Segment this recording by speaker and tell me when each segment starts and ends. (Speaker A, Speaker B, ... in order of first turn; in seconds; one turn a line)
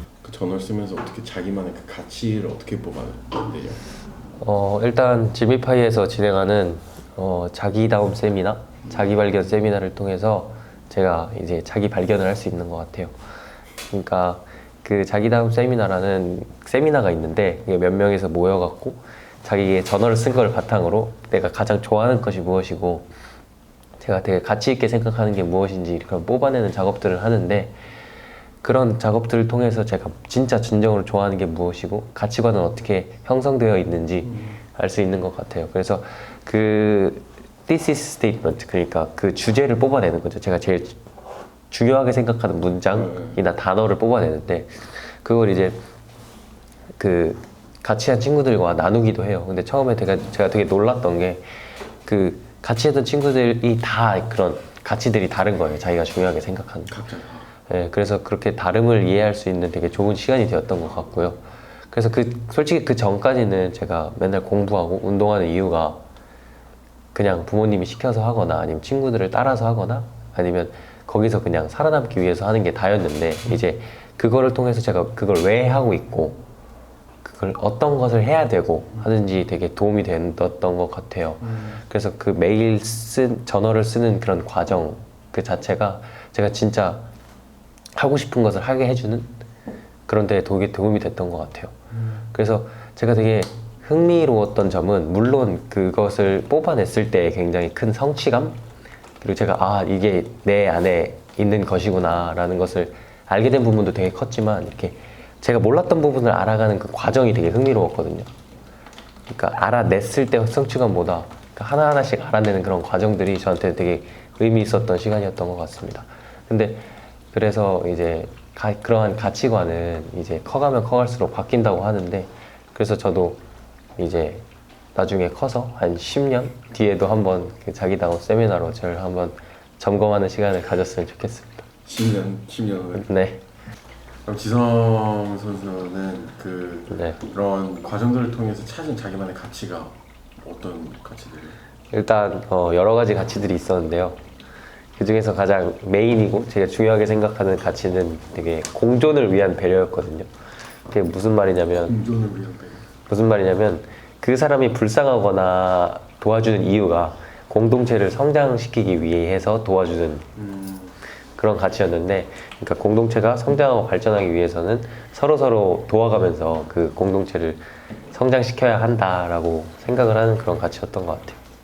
Speaker A: 0.2-3.8
Speaker B: 4.4-13.1
Speaker B: 13.9-23.1
Speaker B: 24.0-27.7
Speaker B: 28.6-41.0
Speaker B: 41.7-45.8
Speaker A: 42.9-43.4
Speaker B: 47.0-51.4
Speaker B: 52.0-57.0
Speaker A: 56.9-57.5
Speaker B: 57.7-61.4
Speaker B: 61.9-66.0
Speaker B: 67.1-76.4
Speaker B: 77.2-87.0
Speaker B: 87.9-89.3
Speaker B: 90.1-91.7
Speaker B: 92.3-98.5
Speaker B: 99.2-108.3
Speaker B: 109.3-123.4
Speaker B: 124.0-131.6
Speaker A: 131.8-133.1
Speaker B: 132.9-133.4
Speaker A: 134.2-141.6
Speaker B: 136.9-137.2
Speaker B: 141.9-144.2
Speaker B: 145.0-150.3
Speaker B: 150.9-151.9
Speaker A: 151.8-152.8
Speaker B: 153.1-160.2
Speaker A: 160.3-160.9
Speaker B: 161.4-171.4